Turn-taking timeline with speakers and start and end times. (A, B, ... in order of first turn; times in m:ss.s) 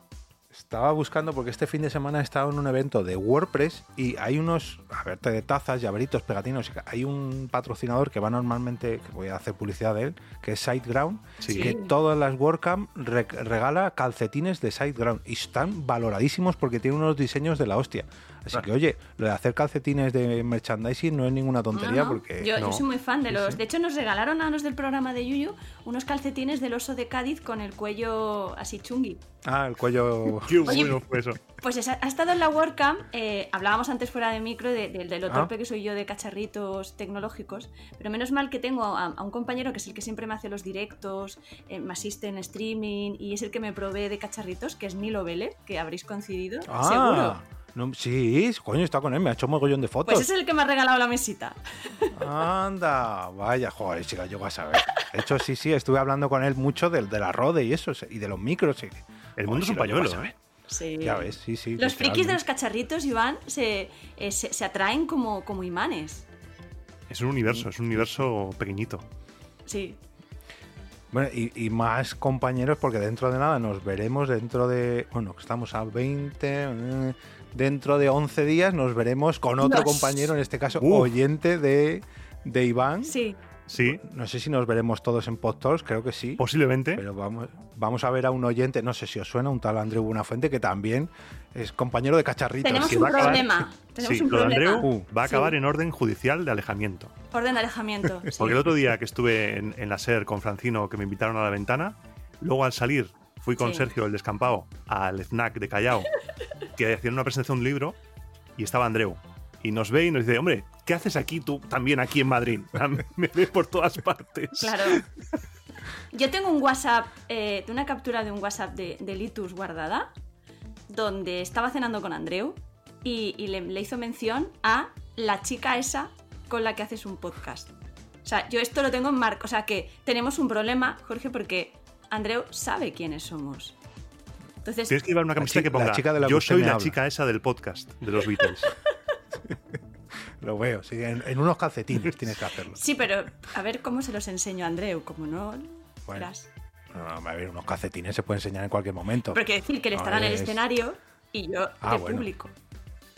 0:00.5-0:22.6 A
0:11.4-0:11.8 B
0:11.5-0:11.9 C
0:21.7-0:29.2 C
0:22.6-0:22.8 B
0:23.3-0:23.6 A
0:29.4-0:31.0 A
0:30.4-0:31.4 B
0:30.6-0:31.0 C
0:31.6-0:47.4 C
0:46.7-0:50.3 A
0:50.1-0:52.4 C
0:52.1-1:00.4 A
0:54.8-0:55.2 C
0:59.4-1:00.3 B
1:00.7-1:06.3 C
1:01.0-1:02.4 A
1:07.1-1:09.0 B
1:07.5-1:08.0 A
1:09.7-1:10.0 C
1:11.1-1:23.2 A
1:19.6-1:20.3 C
1:20.8-1:21.2 B
1:23.0-1:23.4 C
1:23.7-1:24.0 B
1:23.7-1:33.5 A
1:26.4-1:27.0 B
1:32.6-1:35.5 C
1:32.8-1:37.1 B
1:34.8-1:35.1 A
1:37.3-1:38.6 C
1:38.3-1:46.1 B
1:43.6-1:43.9 C
1:46.7-1:48.0 B
1:48.6-1:55.0 B
1:54.6-1:55.0 C
1:56.1-2:00.1 C
2:00.9-2:13.8 C
2:14.6-2:15.0 C
2:14.9-2:18.7 B
2:15.4-2:17.0 A
2:19.4-2:19.8 A
2:20.4-2:22.8 A
2:22.7-2:26.5 C
2:26.9-2:30.7 A
2:29.3-2:32.5 C
2:31.8-2:32.3 A